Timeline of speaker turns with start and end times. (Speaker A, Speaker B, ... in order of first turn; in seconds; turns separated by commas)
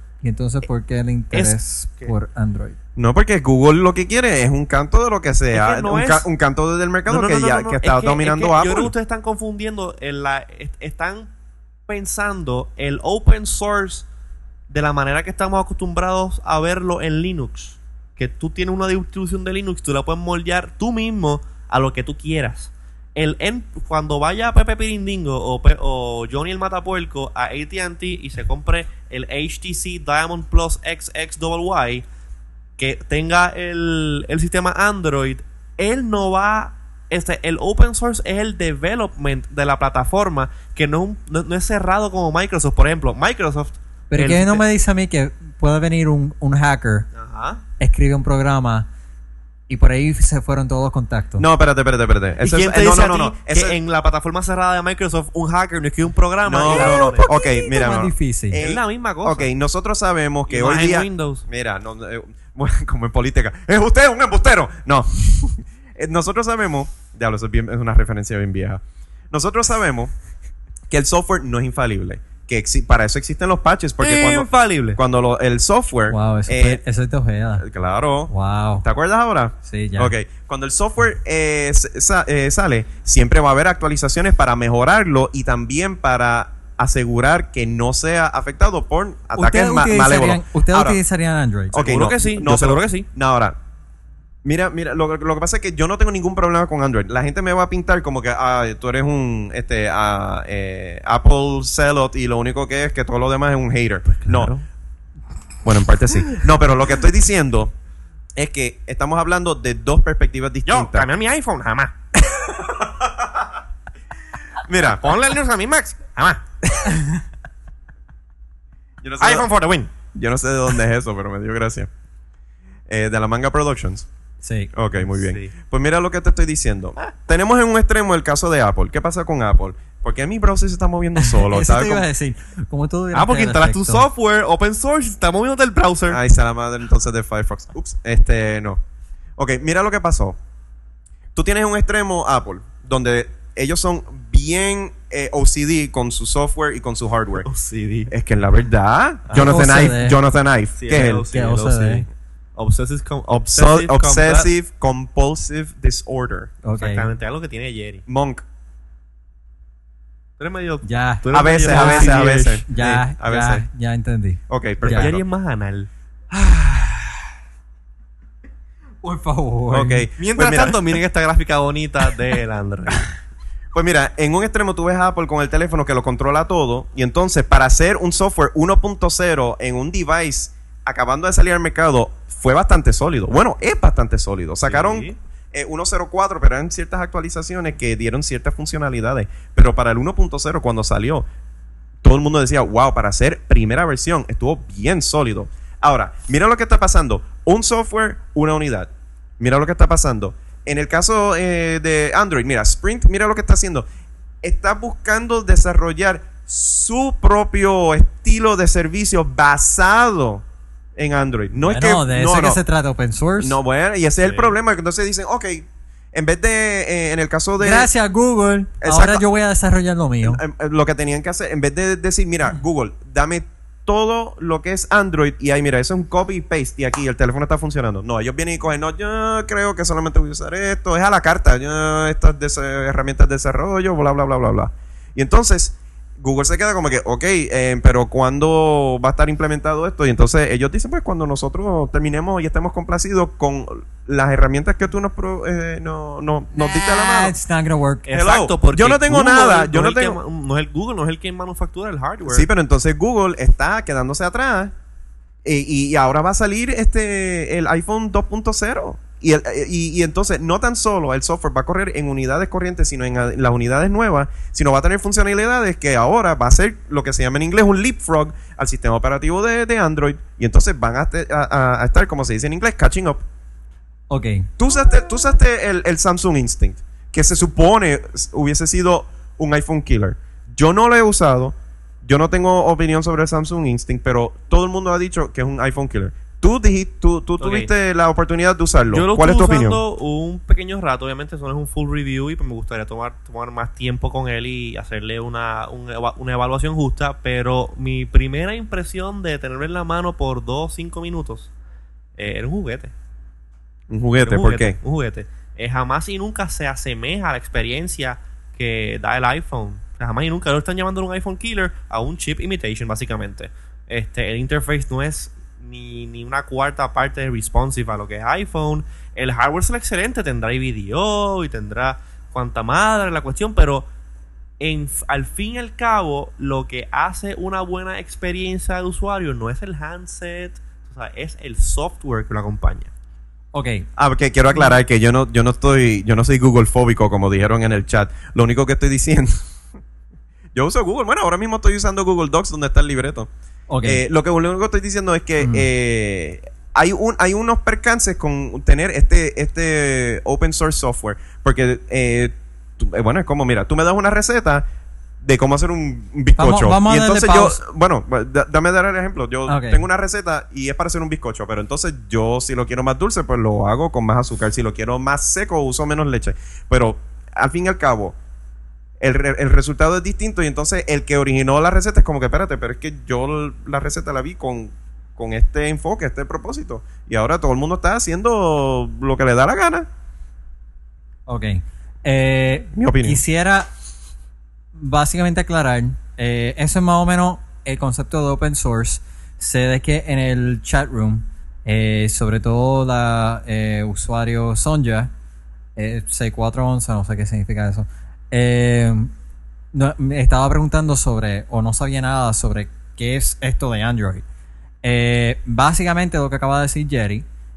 Speaker A: 0.2-2.8, Speaker B: 1.3-2.1, Speaker C: 3.0-8.9, Speaker B: 5.5-6.3, Speaker B: 7.1-11.3, Speaker B: 11.9-14.1, Speaker B: 14.7-32.0, Speaker B: 32.8-44.6, Speaker A: 44.1-47.1, Speaker B: 47.1-47.6, Speaker A: 47.8-48.9, Speaker A: 49.7-51.5, Speaker C: 51.4-53.8, Speaker B: 52.4-57.3, Speaker C: 56.5-70.1, Speaker A: 56.7-58.6, Speaker B: 58.6-59.5, Speaker B: 60.5-61.5, Speaker C: 70.9-76.8, Speaker B: 74.0-75.0, Speaker A: 76.1-77.7, Speaker C: 77.6-91.0, Speaker A: 78.3-78.9, Speaker A: 79.6-80.2, Speaker A: 89.3-91.8, Speaker C: 91.7-93.6, Speaker B: 91.7-93.1, Speaker C: 94.5-104.5, Speaker B: 104.1-104.6, Speaker C: 105.6-107.7, Speaker C: 108.4-111.1, Speaker B: 110.7-112.0, Speaker C: 112.3-113.3, Speaker C: 114.6-115.1, Speaker B: 115.0-117.1, Speaker C: 119.0-119.5, Speaker B: 119.2-119.9, Speaker C: 120.1-121.9, Speaker C: 122.9-124.1, Speaker A: 124.4-124.7, Speaker C: 124.7-132.1, Speaker B: 125.1-125.5, Speaker A: 131.2-134.1, Speaker B: 133.1-136.2, Speaker C: 136.1-138.8, Speaker C: 139.4-140.4, Speaker C: 141.3-147.5, Speaker B: 147.4-148.1, Speaker C: 148.1-151.3, Speaker A: 149.3-150.2, Speaker B: 150.8-154.5, Speaker A: 151.3-152.1, Speaker C: 153.3-156.6, Speaker A: 156.6-157.1, Speaker B: 156.8-158.0, Speaker C: 158.1-158.4, Speaker B: 160.4-162.6, Speaker A: 160.8-165.1, Speaker C: 161.3-163.7, Speaker C: 164.5-165.2, Speaker B: 164.9-165.9, Speaker A: 169.0-170.1, Speaker C: 169.7-170.8, Speaker B: 170.2-173.1, Speaker C: 173.7-191.3, Speaker B: 184.7-185.2, Speaker C: 192.0-203.9, Speaker C: 204.4-210.4, Speaker C: 211.0-212.6, Speaker A: 211.6-213.6, Speaker C: 213.4-217.9, Speaker B: 214.2-214.5, Speaker A: 217.6-220.4, Speaker C: 218.8-219.2, Speaker C: 220.2-247.4, Speaker A: 246.6-248.1, Speaker B: 248.1-252.5, Speaker C: 248.1-250.2, Speaker C: 252.3-254.7, Speaker C: 255.4-273.2, Speaker A: 274.1-274.5, Speaker C: 274.6-289.8, Speaker B: 287.4-287.7, Speaker B: 288.9-301.5, Speaker B: 302.2-302.9, Speaker C: 303.9-304.8, Speaker B: 304.2-323.9, Speaker B: 324.6-332.9, Speaker A: 333.5-333.9, Speaker C: 334.0-339.4, Speaker C: 340.6-343.3, Speaker A: 343.7-344.0, Speaker C: 343.8-354.6, Speaker A: 345.4-345.7, Speaker C: 355.2-368.2, Speaker A: 356.4-357.6, Speaker A: 359.5-359.9, Speaker C: 369.0-379.9, Speaker A: 381.3-383.7, Speaker C: 382.7-383.2, Speaker A: 384.8-395.1, Speaker A: 395.8-399.1, Speaker A: 399.7-404.2, Speaker A: 404.8-407.3